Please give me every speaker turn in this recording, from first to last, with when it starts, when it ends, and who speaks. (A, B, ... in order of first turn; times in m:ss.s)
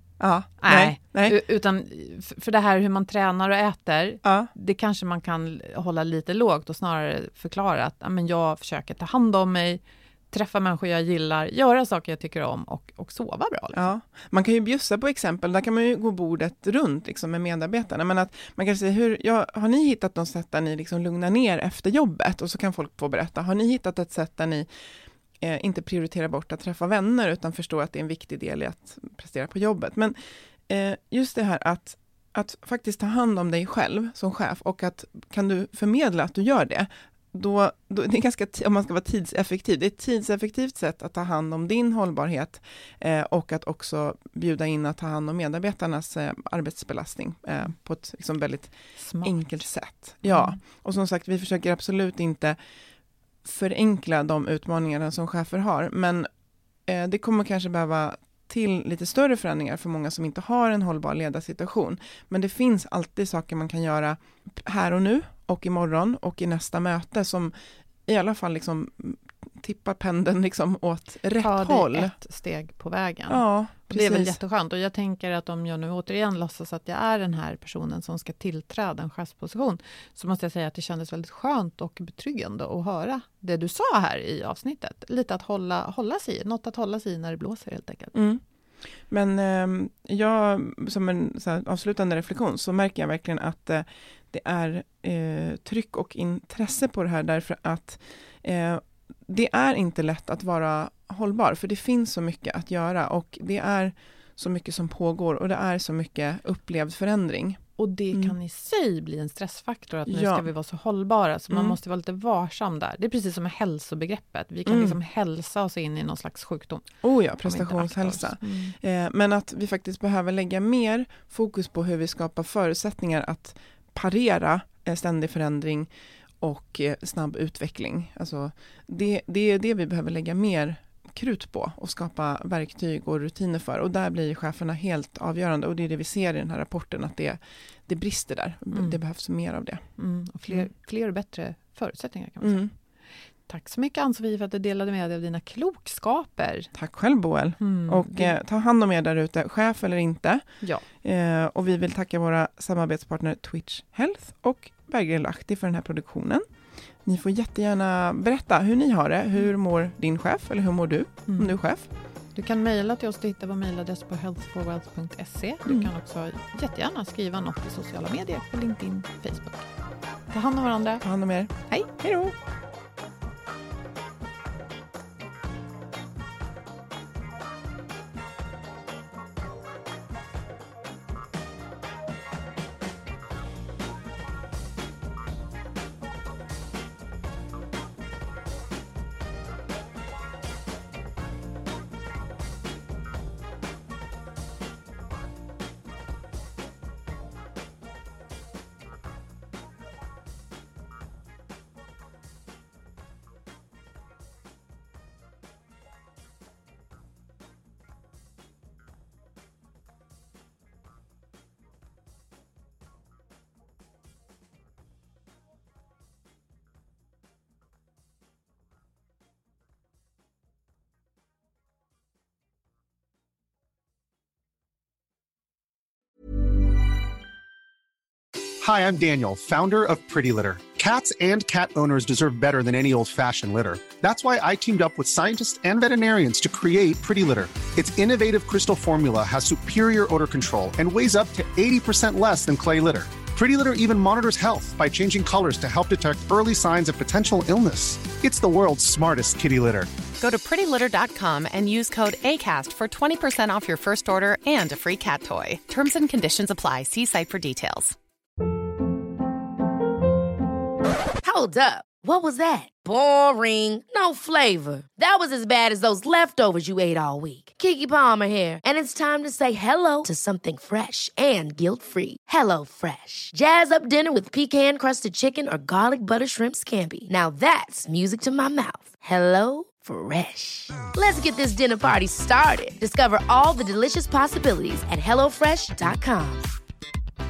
0:00.2-0:01.4 A
0:00.6-0:13.8 B
0:04.2-0:04.5 A
0:13.7-0:24.7 A
0:25.4-0:30.2 A
0:30.7-0:52.6 A
0:49.0-0:49.6 B
0:50.2-0:50.6 B
0:53.4-0:56.3 A
0:56.9-1:07.5 A
1:08.1-1:12.1 A
1:11.3-1:28.2 B
1:13.3-1:14.4 A
1:28.1-1:28.4 A
1:29.1-1:47.6 A
1:47.8-1:56.8 B
1:50.1-1:50.5 A
1:51.5-1:51.8 A
1:54.7-1:55.0 A
1:57.0-2:05.9 A
1:57.4-1:58.7 B
2:06.4-2:19.8 A
2:20.0-2:22.6 B
2:22.4-2:22.7 A
2:23.5-2:26.7 B
2:26.7-2:30.4 A
2:27.6-2:28.3 B
2:31.0-2:36.4 A
2:37.0-2:41.9 A
2:41.3-2:41.5 B
2:42.3-2:49.7 B
2:50.3-2:51.0 B
2:51.0-2:52.3 A
2:51.7-2:52.3 B
3:48.6-4:09.9 C
4:10.2-4:18.0 D
4:21.2-4:46.5 E